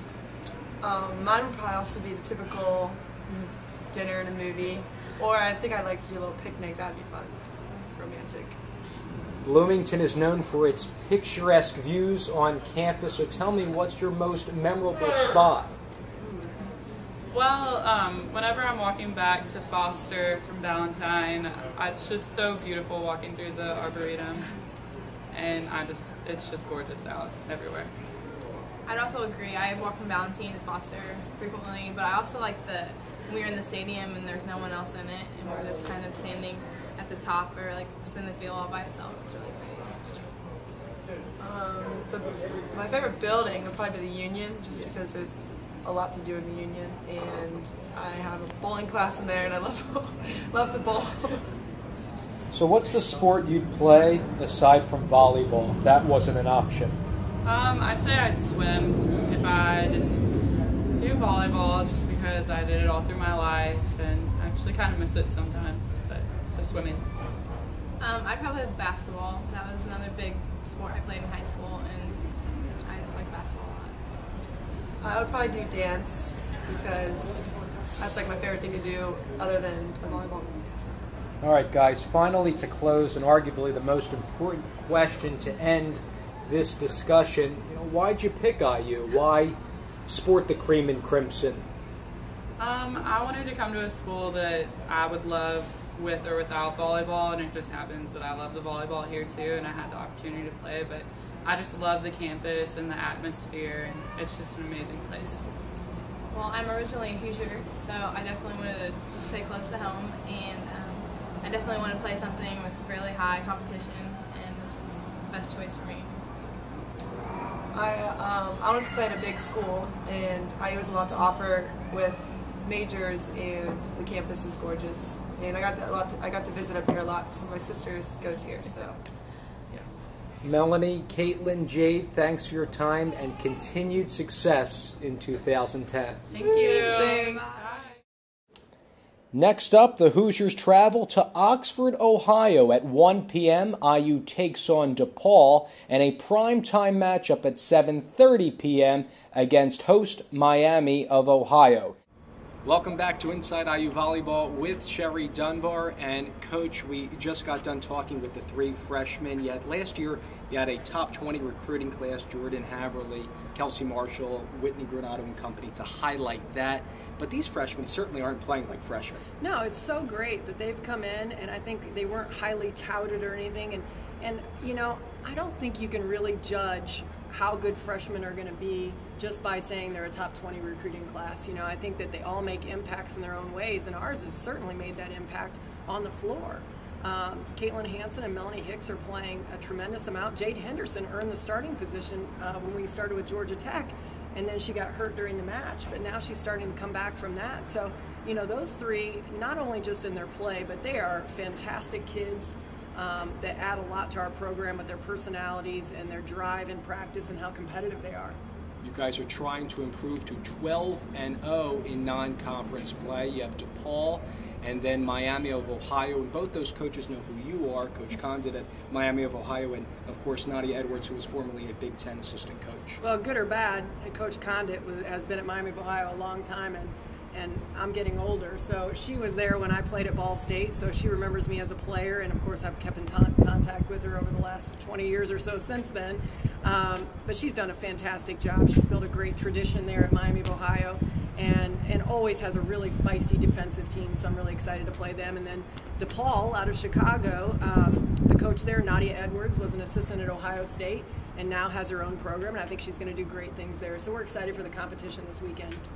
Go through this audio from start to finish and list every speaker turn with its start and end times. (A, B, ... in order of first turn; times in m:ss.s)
0:00.8-0:08.6 A
0:09.4-0:15.7 B
0:16.2-0:16.5 A
0:17.3-0:24.5 C
0:25.3-0:27.9 C
0:28.8-0:40.3 D
0:41.4-0:51.5 A
0:52.5-0:57.0 B
0:57.4-1:00.3 C
1:00.9-1:07.0 C
1:08.0-1:14.0 D
1:15.0-1:21.1 A
1:21.4-1:31.6 B
1:32.6-1:45.4 C
1:46.3-1:56.1 D
1:57.7-2:09.0 A
2:10.4-2:16.2 B
2:16.3-2:17.9 C
2:16.4-2:17.7 A
2:19.3-2:32.0 B
2:32.6-2:49.2 B
2:49.4-3:28.4 E
3:28.8-3:43.0 B
3:43.0-4:15.8 E